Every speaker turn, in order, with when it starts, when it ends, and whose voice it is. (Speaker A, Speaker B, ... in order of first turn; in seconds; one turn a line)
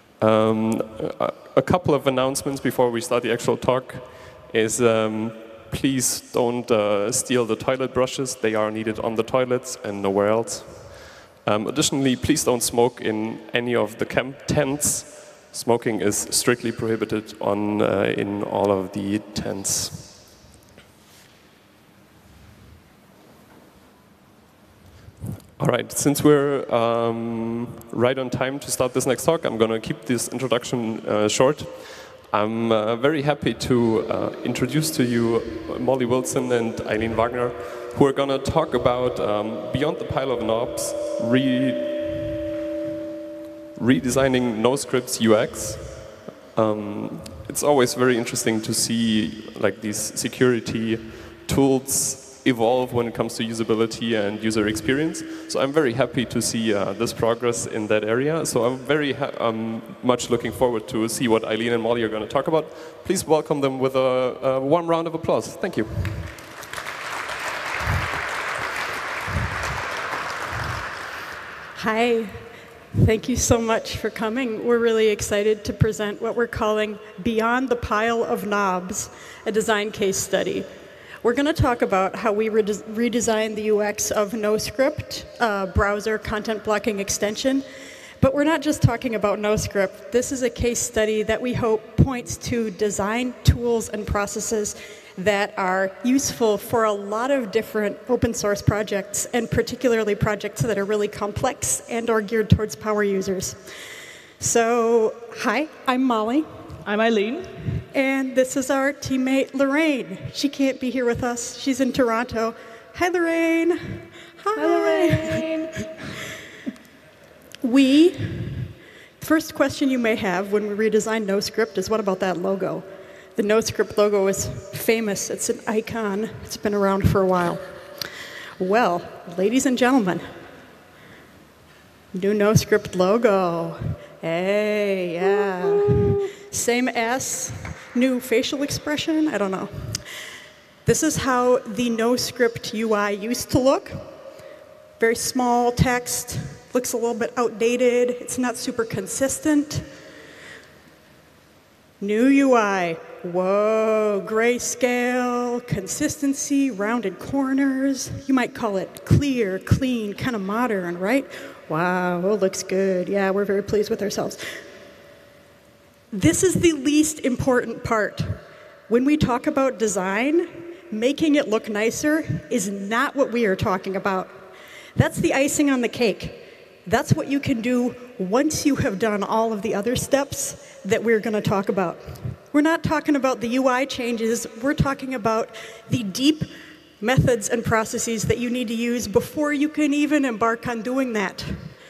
Speaker A: 0.2-20.1
Speaker A: 25.6-42.3
Speaker A: 43.8-66.4
Speaker B: 71.8-80.7
Speaker B: 81.2-87.7
Speaker B: 88.2-103.6
Speaker B: 104.4-106.5
Speaker C: 106.9-107.5
Speaker B: 107.9-115.4
Speaker C: 114.6-115.8
Speaker B: 117.6-127.7
Speaker B: 128.6-130.2
Speaker B: 132.1-140.1
Speaker C: 135.7-136.3
Speaker B: 140.9-144.1
Speaker B: 145.0-149.9
Speaker B: 152.0-164.4
Speaker B: 166.1-174.4
Speaker B: 175.0-191.7